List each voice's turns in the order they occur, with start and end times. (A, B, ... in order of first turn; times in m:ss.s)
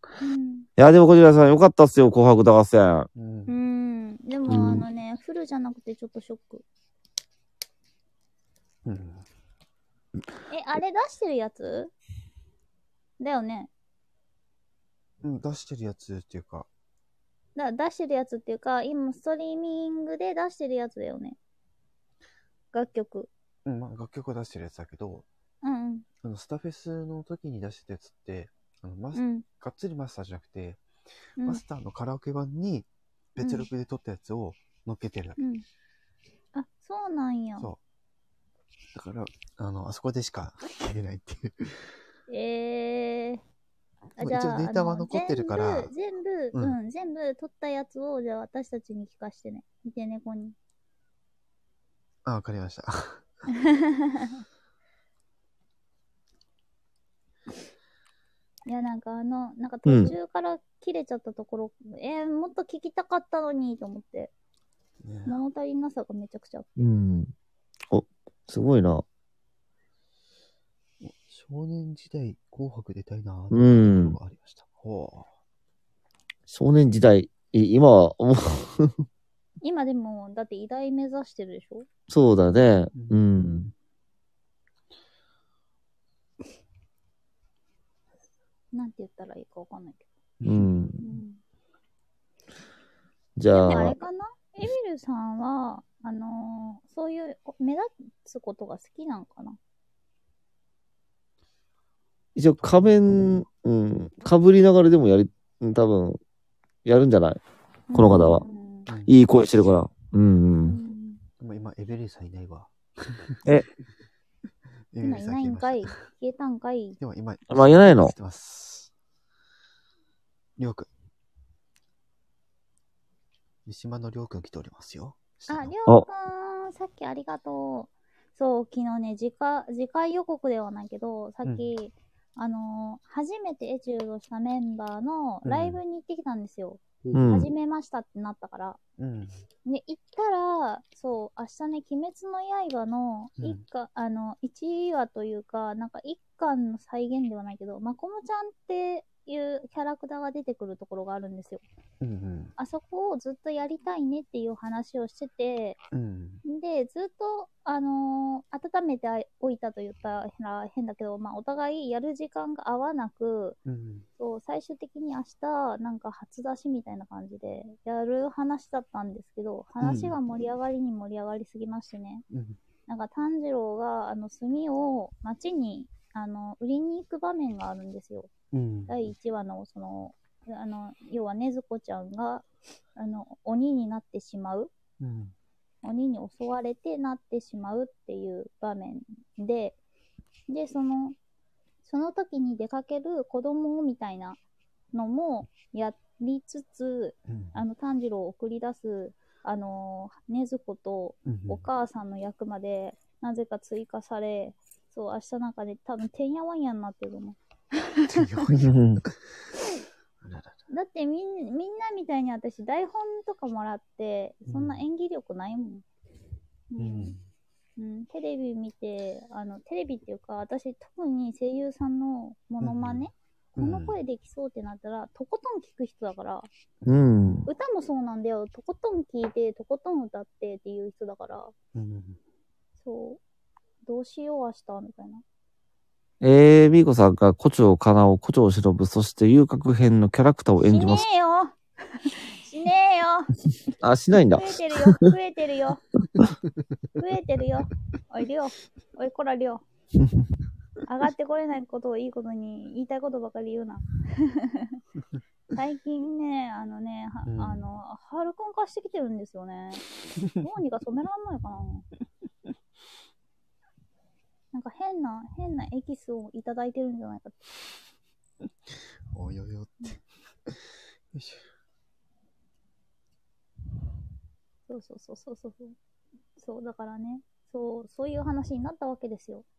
0:00.2-0:00.7 A
0:00.8-0:03.1 B
0:03.1-0:03.5 C
0:03.5-0:06.6 A
0:04.5-0:04.8 B
0:08.8-0:09.2 C
0:10.5-0:11.9 A
0:13.2-0:13.7 A
0:15.2-0:16.7 C
0:17.6-0:21.4 A
0:22.7-0:23.3 A
0:23.6-0:25.3 C
0:25.6-0:26.0 A
0:26.2-0:30.8 C
0:29.1-0:29.4 A
0:31.4-0:35.4 C
0:33.4-0:33.7 A
0:35.4-0:35.6 A
0:36.5-0:37.7 A
0:38.9-0:41.9 C
0:42.3-0:43.4 A
0:44.2-0:45.9 C
0:44.2-0:50.5 A
0:52.2-0:53.2 C
0:53.6-0:54.4 A
0:58.6-1:04.3 A
0:59.8-1:00.1 B
1:05.0-1:05.4 C
1:05.2-1:06.7 A
1:06.8-1:07.3 B
1:07.9-1:09.0 B
1:11.0-1:15.3 C
1:13.5-1:14.2 B
1:16.5-1:18.9 B
1:19.6-1:21.9 A
1:22.1-1:23.7 B
1:22.9-1:23.2 C
1:28.7-1:30.0 A
1:30.4-1:30.7 C
1:30.4-1:31.0 B
1:31.0-1:31.4 A
1:33.4-1:34.0 B
1:33.5-1:39.6 A
1:42.4-1:46.2 B
1:42.6-1:43.4 C
1:46.8-1:47.4 B
1:47.9-1:48.9 A
1:47.9-1:48.4 B
1:48.9-1:49.1 C
1:49.1-1:50.8 B
1:50.6-1:51.2 A
1:51.4-1:53.5 C
1:54.9-1:56.0 C
1:55.0-1:57.0 A
1:57.0-1:58.9 C
1:57.5-1:58.1 B
2:00.6-2:00.9 C
2:03.6-2:05.7 C
2:05.5-2:18.8 A
2:11.4-2:11.7 C
2:15.4-2:15.8 C
2:17.0-2:17.4 C
2:17.1-2:17.5 B
2:19.0-2:19.4 C
2:19.6-2:31.6 A
2:32.0-2:32.5 C
2:32.6-2:35.8 A
2:35.9-2:36.4 C
2:36.4-2:43.6 A
2:43.6-2:44.0 C
2:44.2-2:52.2 A
2:49.8-2:50.2 C
2:52.3-2:52.6 C
2:52.9-2:58.3 A
2:58.5-2:59.1 C
2:58.9-3:04.7 A
3:05.0-3:05.3 C
3:05.8-3:09.8 A
3:10.5-3:11.2 A
3:11.8-3:14.4 A
3:14.9-3:28.3 A
3:17.3-3:17.6 C
3:21.2-3:21.6 C
3:28.1-3:29.4 C
3:28.6-3:29.0 B
3:30.2-3:30.6 C
3:30.7-3:35.8 A
3:34.5-3:34.8 C
3:36.7-3:37.2 A
3:36.8-3:37.2 C
3:37.8-3:46.5 A
3:42.6-3:44.0 C
3:46.8-3:47.5 C
3:46.9-3:47.4 B
3:47.5-3:51.5 A
3:51.7-3:52.2 C
3:52.8-3:53.2 A
3:53.8-3:55.2 A
3:56.2-4:01.0 B
4:00.7-4:03.3 A
4:03.8-4:05.0 B
4:04.3-4:05.8 A
4:07.0-4:09.6 A
4:10.8-4:14.8 A
4:15.5-4:19.8 A
4:17.2-4:17.6 C
4:20.4-4:21.9 A
4:24.5-4:27.4 A
4:28.7-4:31.5 C
4:34.7-4:35.8 A
4:36.4-4:39.4 A